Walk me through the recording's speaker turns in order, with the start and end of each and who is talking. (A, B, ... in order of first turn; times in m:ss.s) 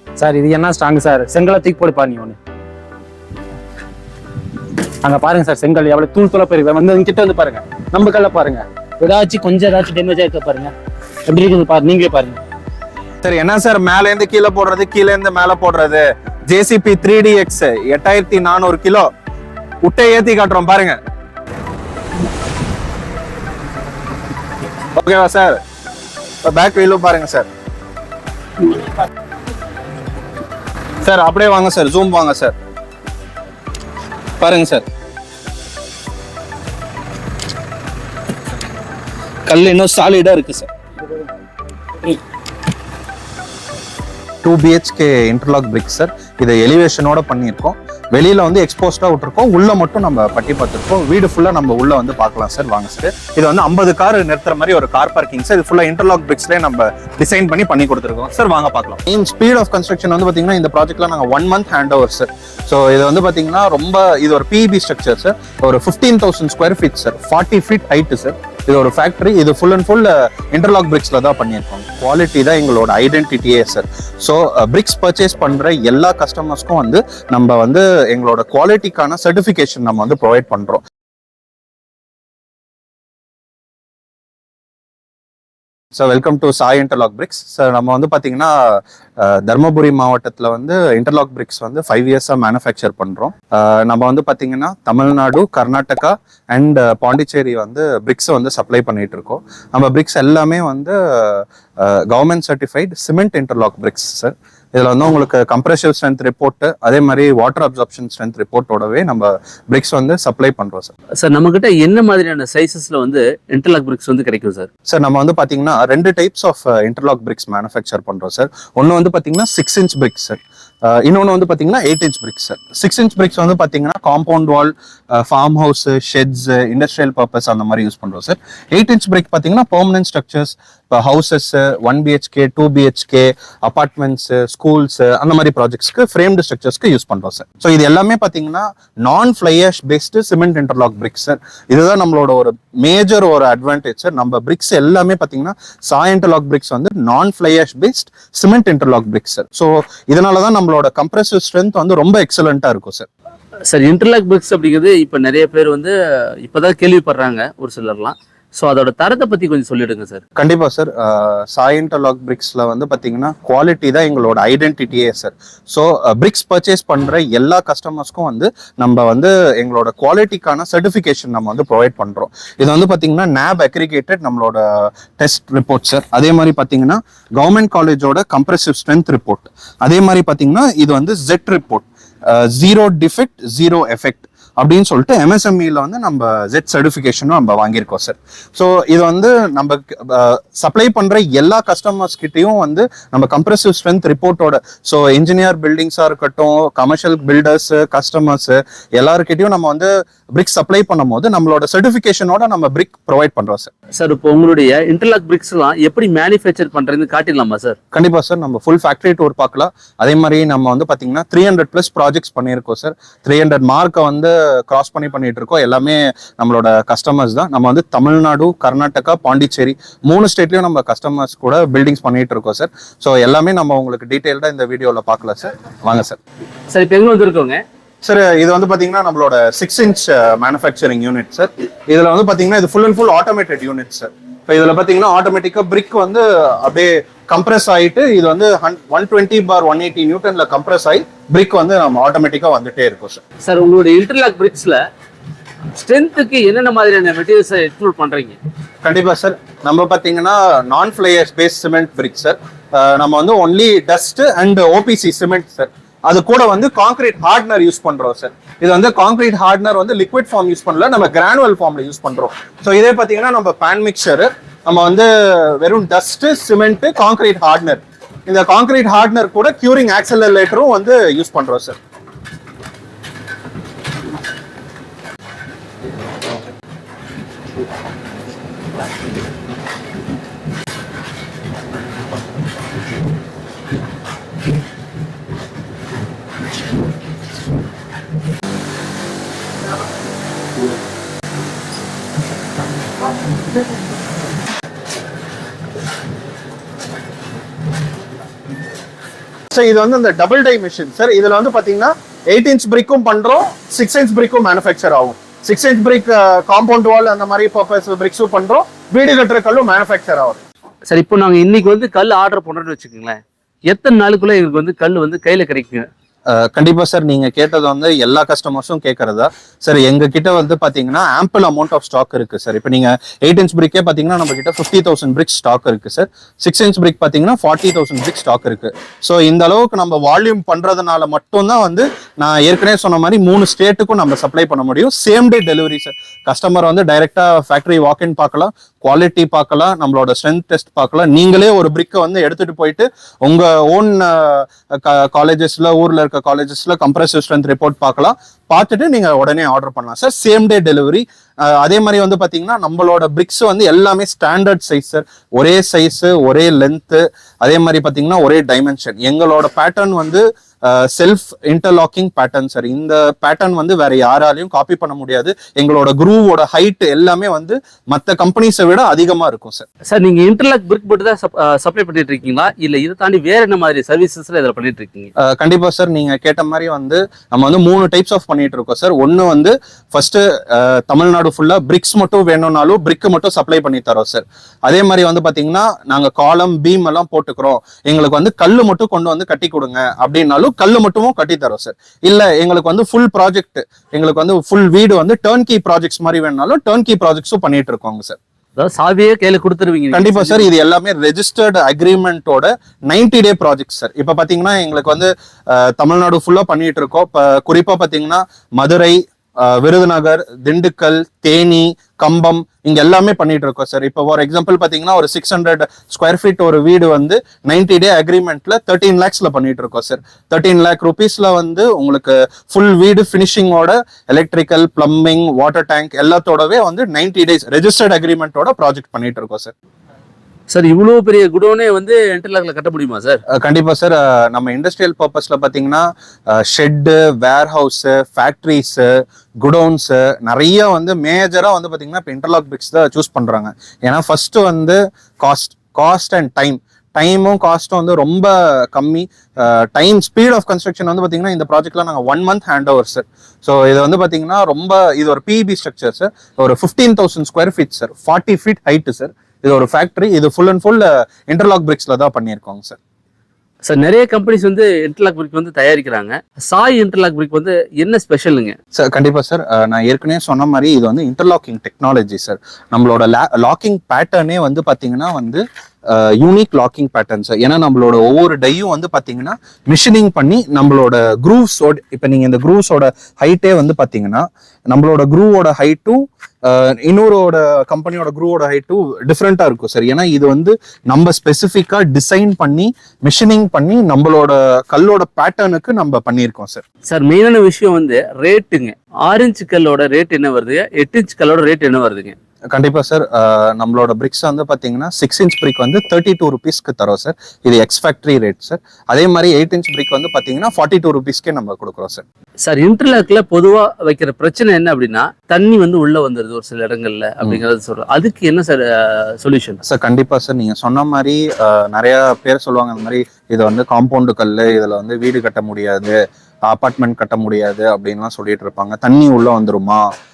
0:00.2-0:02.4 A
0:05.0-0:10.7 A
0:11.3-0:12.4 A
0:13.2-0:19.1 B
0:19.8-0:21.0 B
0:24.9-0:25.6 B
0:26.4-0:27.5 B
0:31.0-0:32.5 B
0:34.4-0:34.8 B
0:39.5-0:40.7 B
0:44.4-1:20.8 B
1:25.9-1:50.9 B
1:51.2-1:54.7 C
1:54.9-2:33.1 B
2:33.7-2:40.2 C
2:40.4-3:23.7 B
3:24.0-3:27.8 C
3:27.9-3:46.2 B
3:46.7-3:47.6 C
3:48.0-4:03.2 B
4:03.4-4:04.8 C
4:05.7-4:08.4 C
4:08.8-4:31.8 B
4:59.5-5:10.4 B
5:10.9-5:13.2 C
5:13.7-5:15.9 C
5:16.3-6:09.6 B
6:09.9-6:15.1 C
6:15.2-6:38.2 B
6:38.6-6:40.5 C
6:39.9-7:09.5 B
7:10.5-7:13.2 C
7:13.3-7:18.9 B
7:19.4-7:42.8 B
7:43.6-7:48.6 C
7:48.7-8:16.6 B
8:16.9-8:22.1 C
8:22.5-8:32.0 B
8:32.4-8:39.6 C
8:39.6-8:46.0 B
8:46.5-8:49.8 B